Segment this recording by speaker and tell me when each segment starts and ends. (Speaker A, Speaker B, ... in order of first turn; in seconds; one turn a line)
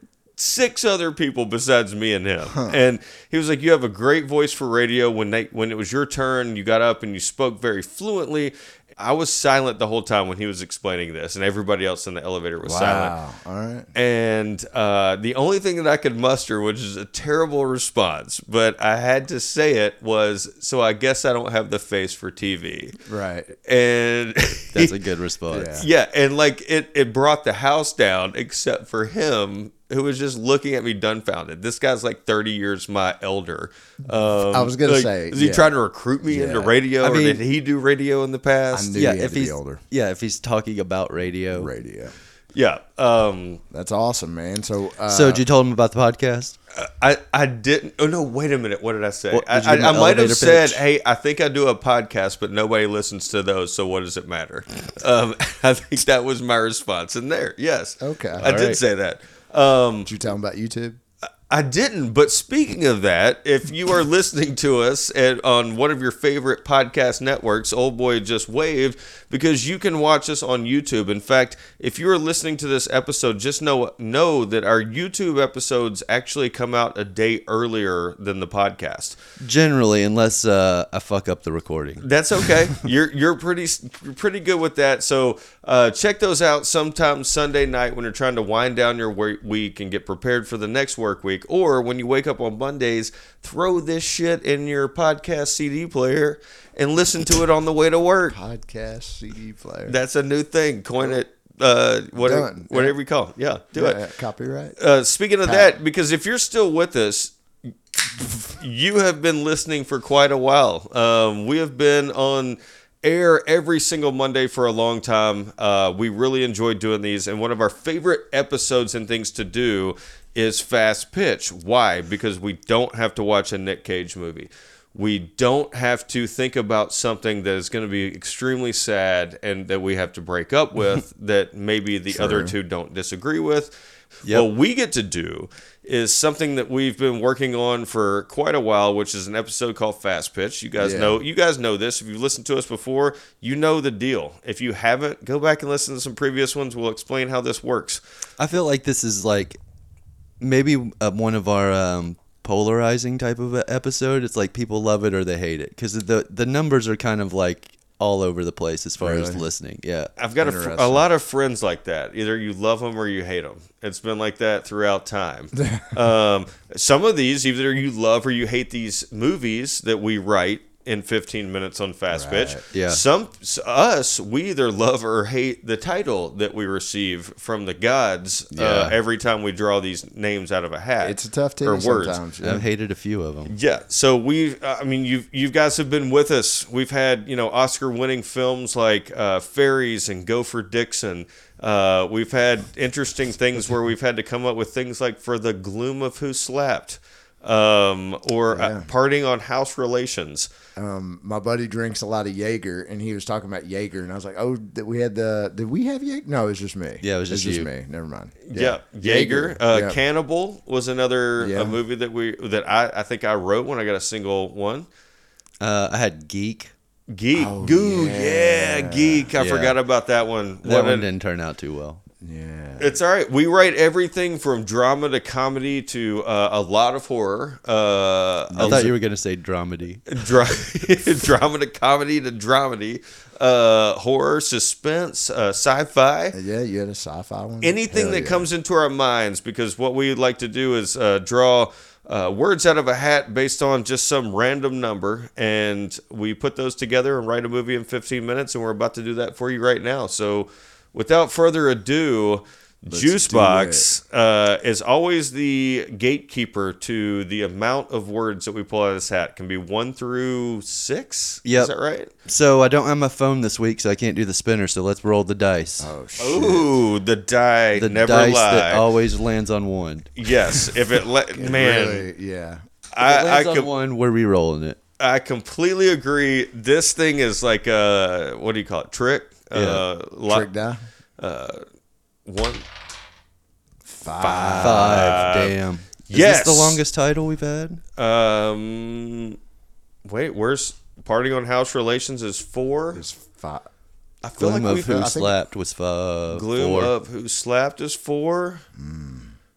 Speaker A: 0.4-13.1
Speaker B: 2.5-2.8
Speaker B: 12.6-13.9
Speaker A: 13.9-23.0
Speaker B: 23.0-23.5
Speaker A: 23.6-25.0
Speaker C: 24.7-25.8
Speaker B: 25.5-25.9
Speaker A: 25.8-39.0
Speaker B: 34.5-35.7
Speaker B: 36.3-36.8
Speaker C: 37.0-37.4
Speaker B: 38.7-39.8
Speaker C: 39.0-41.7
Speaker B: 41.5-42.2
Speaker A: 42.5-43.6
Speaker B: 43.7-45.4
Speaker C: 45.1-46.6
Speaker A: 46.8-60.1
Speaker C: 49.3-50.8
Speaker B: 58.0-58.5
Speaker C: 58.4-58.8
Speaker B: 60.0-61.0
Speaker A: 61.5-79.2
Speaker C: 79.4-82.1
Speaker A: 82.0-98.4
Speaker B: 98.3-100.0
Speaker A: 99.9-104.0
Speaker B: 102.2-103.0
Speaker B: 103.7-104.8
Speaker A: 104.8-107.3
Speaker B: 105.4-105.8
Speaker A: 108.1-133.7
Speaker B: 132.1-132.6
Speaker A: 134.3-148.0
Speaker B: 140.8-141.2
Speaker C: 148.4-149.6
Speaker C: 150.4-160.1
Speaker B: 159.0-159.5
Speaker A: 160.2-182.2
Speaker B: 160.4-161.1
Speaker B: 165.6-165.9
Speaker B: 172.1-172.6
Speaker C: 172.7-173.0
Speaker C: 178.5-179.0
Speaker B: 181.0-182.7
Speaker C: 182.4-183.5
Speaker A: 183.5-200.5
Speaker B: 198.5-198.9
Speaker B: 200.8-210.0
Speaker C: 207.0-207.7
Speaker A: 208.5-214.9
Speaker B: 211.4-211.8
Speaker C: 215.6-216.7
Speaker A: 217.1-221.1
Speaker B: 217.3-219.3
Speaker C: 219.4-219.8
Speaker C: 220.6-222.0
Speaker B: 222.2-223.0
Speaker A: 222.8-228.9
Speaker B: 228.5-229.0
Speaker C: 228.6-230.1
Speaker A: 230.1-236.4
Speaker B: 236.3-238.5
Speaker A: 237.6-262.1
Speaker B: 252.9-253.9
Speaker C: 261.4-261.7
Speaker C: 262.3-265.9
Speaker B: 265.8-266.8
Speaker A: 266.2-268.9
Speaker C: 267.8-270.1
Speaker A: 270.2-272.1
Speaker B: 271.3-272.6
Speaker A: 272.9-273.7
Speaker C: 273.0-274.8
Speaker A: 275.0-280.5
Speaker C: 279.5-279.8
Speaker B: 280.3-280.8
Speaker A: 281.2-281.6
Speaker A: 282.3-282.7
Speaker B: 283.9-285.5
Speaker A: 284.1-285.6
Speaker C: 284.6-287.8
Speaker A: 286.1-286.8
Speaker A: 288.0-289.4
Speaker A: 290.1-293.0
Speaker B: 292.9-293.7
Speaker A: 294.2-295.1
Speaker C: 294.4-296.9
Speaker B: 294.5-295.3
Speaker A: 296.3-298.6
Speaker B: 298.8-299.4